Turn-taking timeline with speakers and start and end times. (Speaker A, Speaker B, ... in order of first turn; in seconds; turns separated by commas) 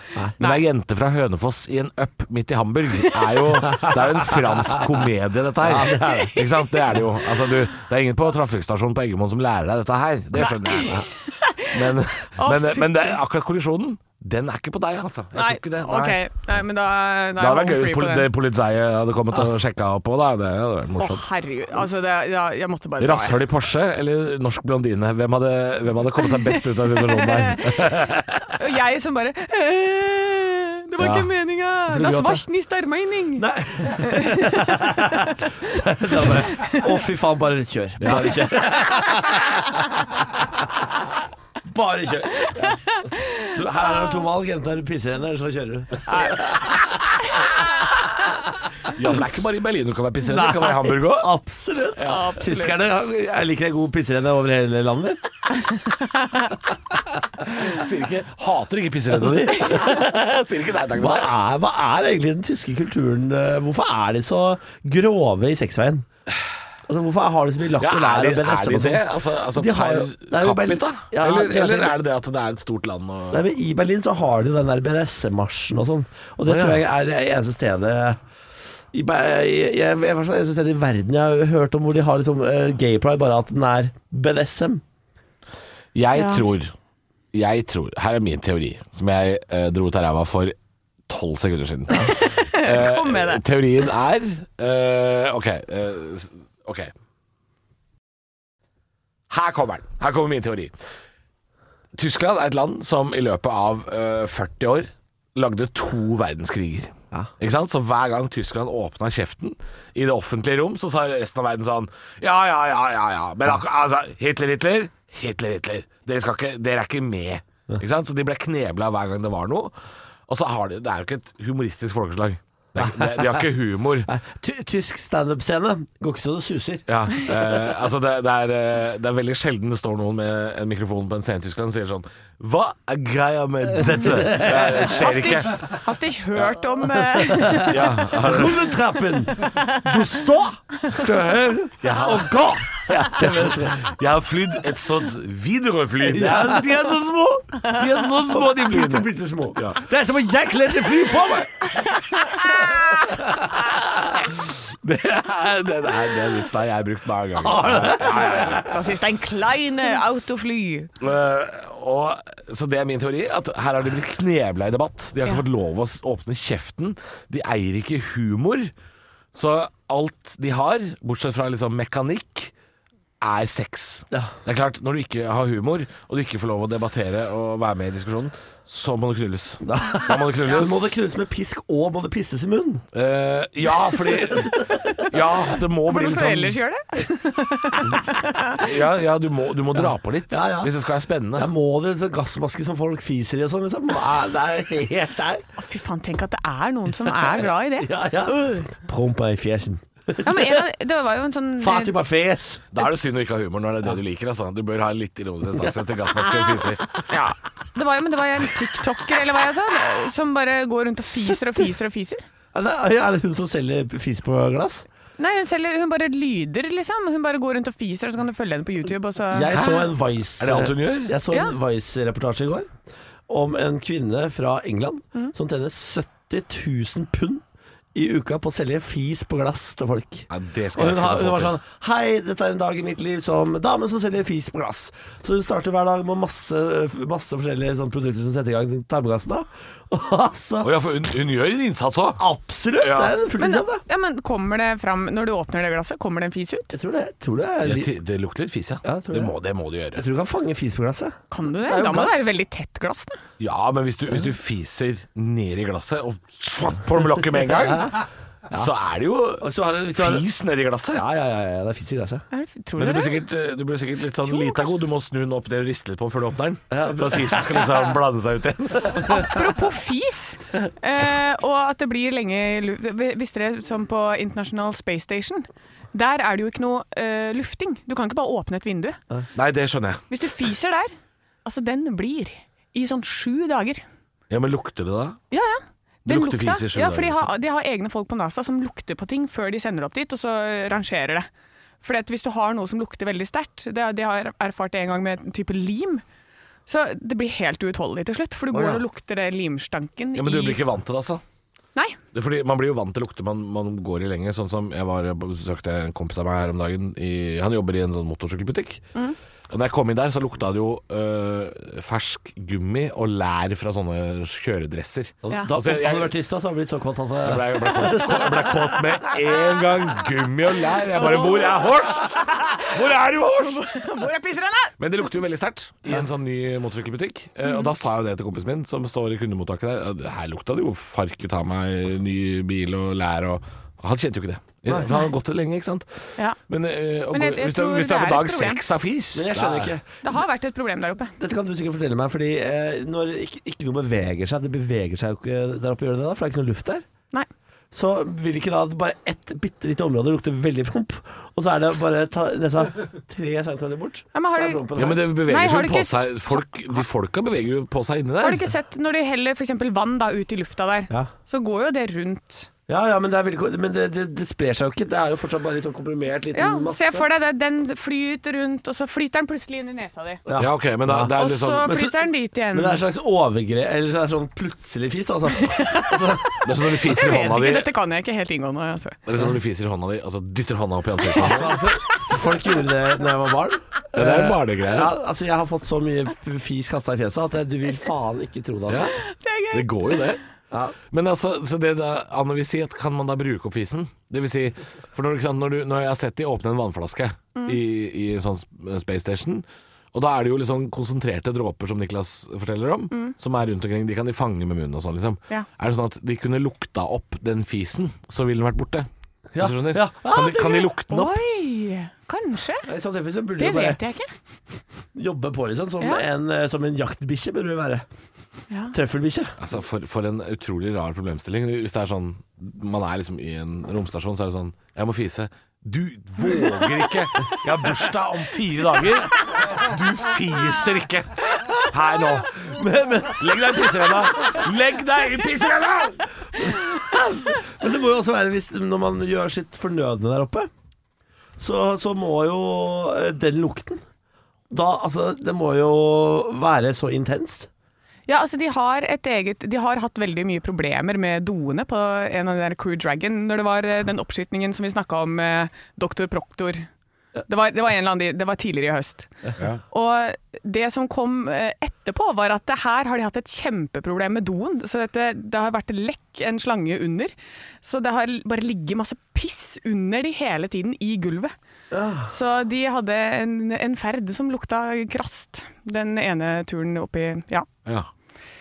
Speaker A: 0.4-11.1, Speaker B: 3.0-3.5, Speaker C: 3.6-4.0, Speaker C: 5.6-6.4, Speaker B: 10.3-13.2, Speaker A: 11.6-16.2, Speaker B: 15.3-18.3, Speaker A: 17.4-21.2, Speaker B: 21.0-23.5, Speaker A: 23.0-28.5, Speaker B: 26.2-35.5, Speaker A: 31.0-31.3, Speaker C: 31.9-32.4, Speaker C: 33.4-39.7, Speaker B: 36.2-36.9, Speaker A: 38.0-38.4, Speaker B: 38.1-38.4, Speaker C: 41.6-42.8, Speaker B: 42.5-44.2, Speaker C: 43.5-46.4, Speaker B: 46.1-46.6, Speaker A: 48.8-51.3, Speaker C: 50.2-55.2, Speaker A: 52.0-52.4, Speaker B: 52.0-52.8, Speaker B: 55.8-56.5, Speaker A: 57.4-61.3, Speaker C: 59.5-60.0, Speaker C: 61.0-66.0, Speaker C: 66.9-72.0, Speaker A: 67.8-73.5, Speaker C: 73.3-78.2, Speaker A: 76.5-76.8, Speaker C: 78.9-84.8, Speaker A: 86.0-86.7, Speaker B: 86.1-86.5, Speaker A: 87.3-90.5, Speaker A: 91.1-96.9, Speaker B: 91.9-93.5, Speaker A: 99.3-100.7, Speaker A: 102.0-119.7, Speaker A: 120.3-124.1, Speaker C: 122.8-123.4, Speaker C: 124.0-126.9, Speaker A: 126.9-135.6, Speaker C: 133.9-135.1, Speaker B: 134.8-138.0, Speaker A: 137.6-138.5, Speaker C: 138.2-143.8, Speaker B: 139.4-140.0, Speaker A: 141.8-142.3, Speaker A: 142.9-146.7, Speaker C: 146.0-151.7, Speaker A: 148.3-149.8, Speaker B: 152.0-152.8, Speaker C: 152.9-153.6, Speaker A: 154.8-158.7, Speaker C: 157.4-158.8, Speaker B: 158.4-160.9, Speaker A: 161.0-168.7, Speaker A: 169.3-172.5, Speaker A: 173.2-181.0, Speaker C: 179.6-182.8, Speaker A: 182.9-186.6, Speaker B: 185.7-188.6, Speaker A: 188.6-191.5, Speaker C: 190.3-190.7, Speaker C: 191.3-195.4, Speaker B: 195.6-198.7, Speaker C: 197.0-200.7, Speaker B: 200.2-202.0, Speaker C: 201.6-202.9, Speaker A: 202.7-206.9, Speaker C: 205.5-206.8, Speaker B: 207.1-212.2, Speaker C: 212.5-214.9, Speaker B: 215.2-219.9, Speaker C: 219.3-222.7, Speaker A: 219.5-219.9, Speaker A: 220.4-221.1, Speaker B: 221.3-221.6, Speaker C: 223.3-227.4, Speaker C: 227.9-240.7, Speaker A: 230.3-231.6, Speaker A: 240.6-243.2, Speaker C: 242.2-243.8, Speaker B: 243.3-246.7, Speaker C: 246.7-247.9, Speaker A: 247.6-250.0, Speaker C: 248.8-249.4, Speaker C: 249.9-252.3, Speaker B: 251.3-253.2, Speaker A: 253.4-261.0, Speaker C: 257.7-258.0, Speaker C: 259.4-260.3, Speaker C: 260.9-262.2, Speaker B: 262.3-263.2, Speaker A: 262.8-269.4, Speaker B: 264.2-264.8, Speaker C: 266.7-268.0, Speaker B: 269.0-279.0, Speaker A: 279.4-280.0, Speaker B: 280.1-280.9, Speaker B: 281.4-283.8, Speaker A: 284.3-285.2, Speaker B: 285.3-291.2, Speaker A: 286.1-287.3, Speaker B: 291.8-296.0, Speaker B: 296.7-300.6, Speaker A: 298.5-298.8, Speaker A: 300.1-301.2, Speaker A: 302.1-308.8, Speaker A: 309.5-316.2, Speaker C: 315.2-318.6, Speaker B: 315.3-315.5, Speaker A: 317.2-323.8, Speaker B: 320.9-322.8, Speaker B: 323.4-324.8, Speaker A: 324.8-335.9, Speaker B: 327.4-327.7, Speaker C: 334.7-335.0, Speaker A: 336.5-339.8, Speaker B: 337.1-338.6, Speaker C: 339.1-339.9, Speaker B: 340.0-341.1, Speaker C: 341.2-346.8, Speaker C: 347.7-355.1, Speaker B: 354.1-356.8, Speaker A: 354.8-358.5, Speaker B: 358.2-362.5, Speaker C: 362.7-367.1, Speaker B: 366.3-370.2, Speaker C: 370.2-376.4, Speaker A: 370.4-371.6, Speaker B: 371.1-372.8, Speaker B: 375.3-379.0, Speaker A: 376.4-377.7, Speaker A: 379.1-381.6, Speaker C: 381.1-388.9, Speaker A: 383.9-384.9, Speaker A: 388.7-389.0, Speaker B: 388.9-390.2, Speaker A: 389.5-390.2, Speaker C: 390.5-390.8, Speaker A: 390.9-408.9, Speaker C: 409.3-410.8, Speaker A: 409.4-411.2, Speaker B: 410.9-412.7, Speaker C: 412.6-413.8, Speaker B: 413.4-414.1, Speaker C: 414.9-417.9, Speaker C: 418.7-419.3, Speaker A: 419.4-432.5, Speaker C: 432.4-433.6, Speaker A: 433.2-436.1, Speaker C: 436.4-440.5, Speaker C: 441.4-443.8, Speaker C: 444.5-447.5, Speaker B: 448.1-456.6, Speaker B: 457.3-459.1, Speaker B: 459.7-471.3, Speaker C: 471.7-472.1, Speaker B: 472.1-477.5